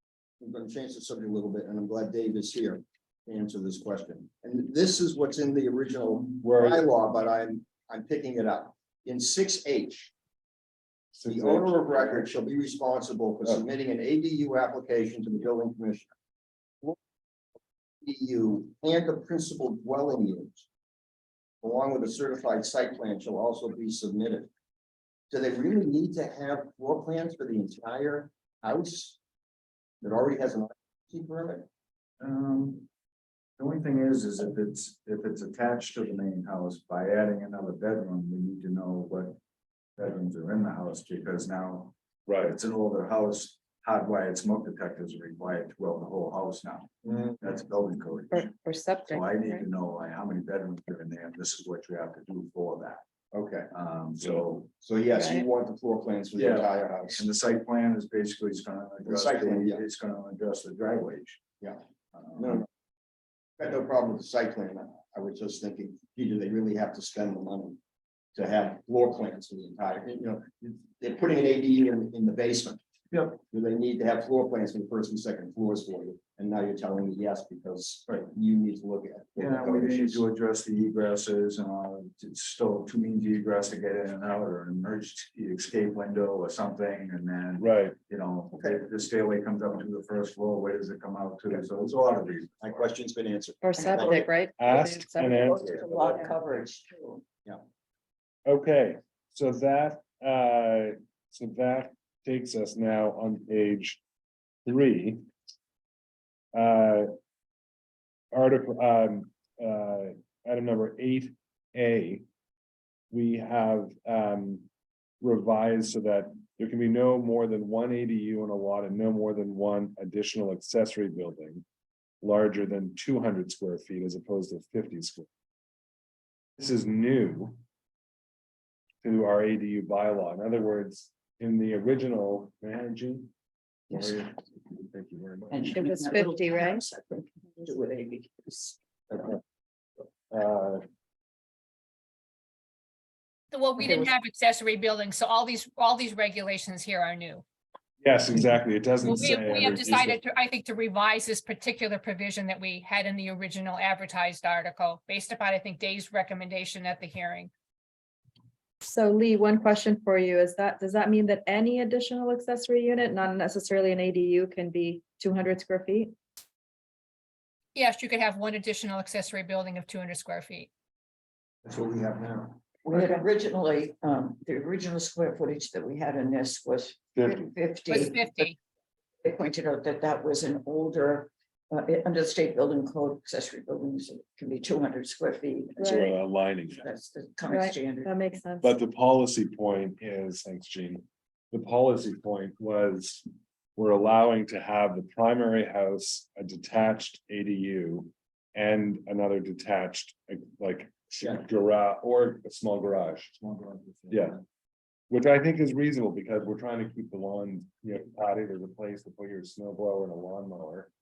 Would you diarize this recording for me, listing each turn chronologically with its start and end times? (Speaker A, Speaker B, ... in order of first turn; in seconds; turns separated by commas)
Speaker A: 0.4-10.1, Speaker B: 6.4-6.9, Speaker B: 11.2-12.3, Speaker A: 11.3-16.1, Speaker A: 18.0-20.7, Speaker A: 21.6-24.5, Speaker A: 25.3-29.2, Speaker A: 30.0-31.7, Speaker C: 32.2-32.9, Speaker C: 33.6-39.4, Speaker C: 40.0-48.5, Speaker B: 42.3-42.6, Speaker D: 48.3-49.6, Speaker C: 49.1-53.0, Speaker A: 53.3-53.7, Speaker C: 53.7-54.7, Speaker A: 54.8-57.3, Speaker D: 55.2-55.5, Speaker C: 56.4-61.4, Speaker A: 59.0-59.8, Speaker C: 62.1-62.6, Speaker A: 62.4-62.7, Speaker A: 63.6-67.8, Speaker A: 68.3-80.2, Speaker C: 79.4-92.9, Speaker B: 87.6-88.0, Speaker A: 92.6-94.2, Speaker D: 93.6-95.4, Speaker E: 93.8-94.3, Speaker B: 94.6-96.3, Speaker E: 95.2-97.2, Speaker B: 98.5-104.0, Speaker B: 104.7-105.2, Speaker B: 106.5-107.1, Speaker B: 108.3-112.2, Speaker B: 113.1-114.7, Speaker B: 115.2-121.7, Speaker B: 122.2-125.3, Speaker B: 126.6-127.6, Speaker B: 129.0-133.3, Speaker B: 133.9-135.9, Speaker E: 135.5-139.2, Speaker D: 135.7-136.8, Speaker B: 140.3-140.8, Speaker F: 143.5-147.4, Speaker E: 143.8-144.1, Speaker B: 148.0-150.2, Speaker F: 149.0-157.5, Speaker D: 158.8-166.1, Speaker F: 167.7-170.7, Speaker A: 171.7-172.6, Speaker E: 172.8-178.5, Speaker B: 177.2-177.5, Speaker F: 177.9-178.6, Speaker E: 179.2-188.1, Speaker D: 185.8-186.1, Speaker B: 185.9-186.9, Speaker D: 187.5-188.7, Speaker B: 188.6-193.2, Speaker B: 193.8-203.4, Speaker C: 203.4-204.4, Speaker B: 204.1-204.4, Speaker B: 205.1-210.9